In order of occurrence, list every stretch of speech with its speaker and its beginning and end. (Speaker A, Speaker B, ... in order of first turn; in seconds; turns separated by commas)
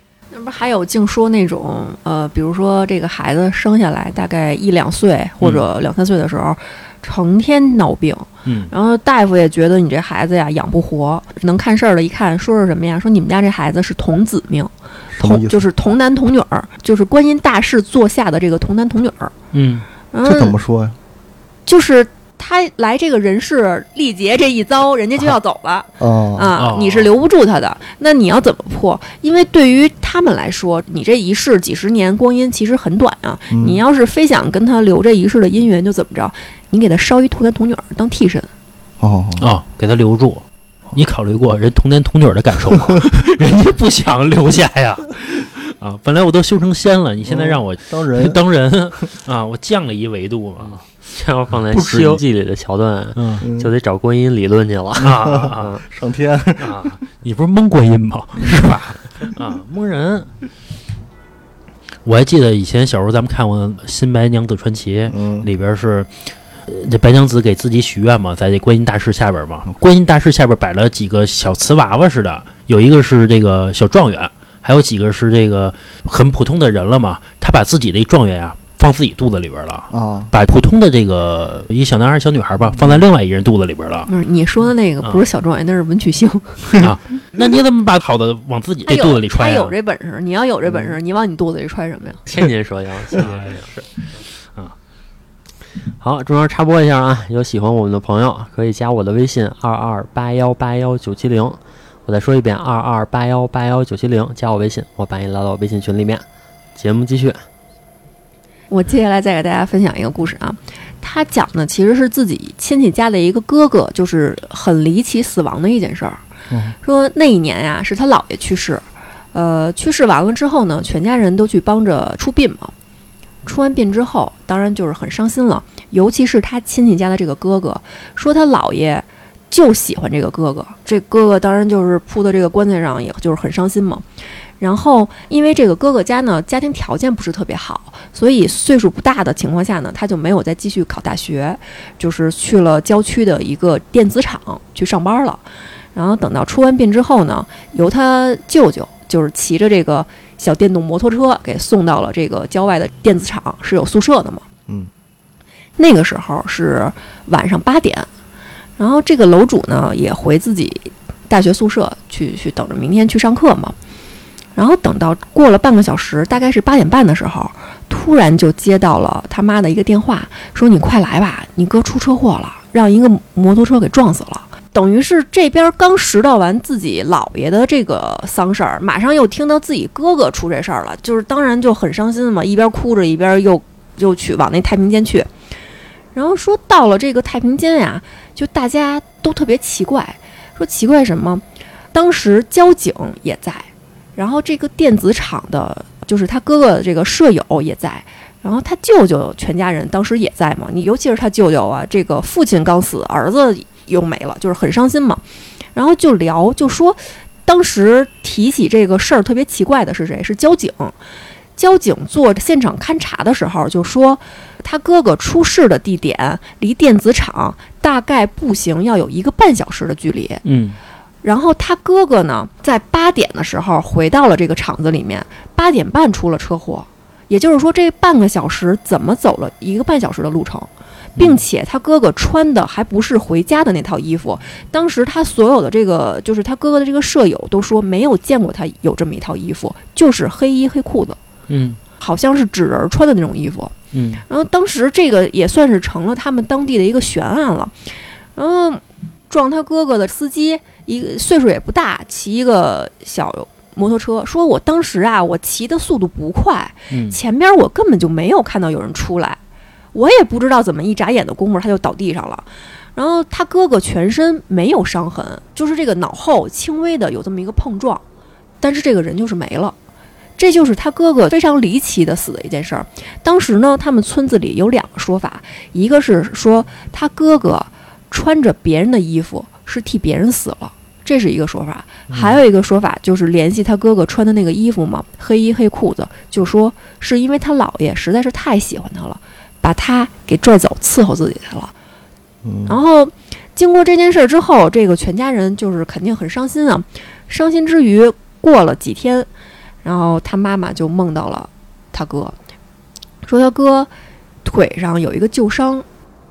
Speaker A: 0.3-19.3, Speaker B: 8.4-8.7, Speaker C: 15.1-15.7, Speaker B: 19.5-19.9, Speaker A: 20.1-20.6, Speaker C: 20.2-21.0, Speaker A: 21.7-38.5, Speaker C: 26.0-26.5, Speaker B: 26.6-27.1, Speaker C: 33.5-33.8, Speaker C: 39.0-39.5, Speaker B: 39.4-50.9, Speaker C: 47.3-48.4, Speaker D: 50.6-55.8, Speaker B: 51.7-52.2, Speaker B: 53.2-53.5, Speaker C: 53.4-53.7, Speaker B: 55.0-55.7, Speaker C: 55.2-57.0, Speaker B: 56.6-60.3, Speaker B: 62.0-84.1, Speaker C: 65.1-65.5, Speaker C: 79.9-80.3, Speaker A: 84.1-86.9, Speaker B: 86.8-89.8, Speaker A: 88.9-92.2, Speaker D: 92.3-93.7, Speaker B: 93.1-93.9, Speaker D: 96.0-106.2, Speaker D: 106.8-107.4, Speaker A: 108.7-116.2, Speaker A: 116.8-122.7, Speaker A: 123.5-134.0, Speaker A: 134.6-145.4, Speaker A: 145.9-154.4, Speaker A: 155.8-158.1, Speaker A: 158.8-163.8, Speaker A: 164.6-185.3, Speaker A: 186.1-205.2, Speaker A: 205.8-211.0, Speaker A: 211.6-220.4, Speaker B: 220.4-220.8, Speaker A: 221.2-241.2, Speaker B: 241.5-241.8, Speaker A: 242.0-243.7, Speaker B: 243.9-244.2, Speaker A: 244.3-247.7, Speaker A: 248.4-259.4, Speaker B: 256.9-257.2, Speaker A: 259.9-268.0, Speaker A: 268.6-269.8, Speaker A: 270.4-291.7, Speaker C: 292.4-292.8, Speaker A: 292.7-299.3, Speaker A: 299.8-302.4, Speaker A: 303.3-303.9, Speaker A: 304.4-305.9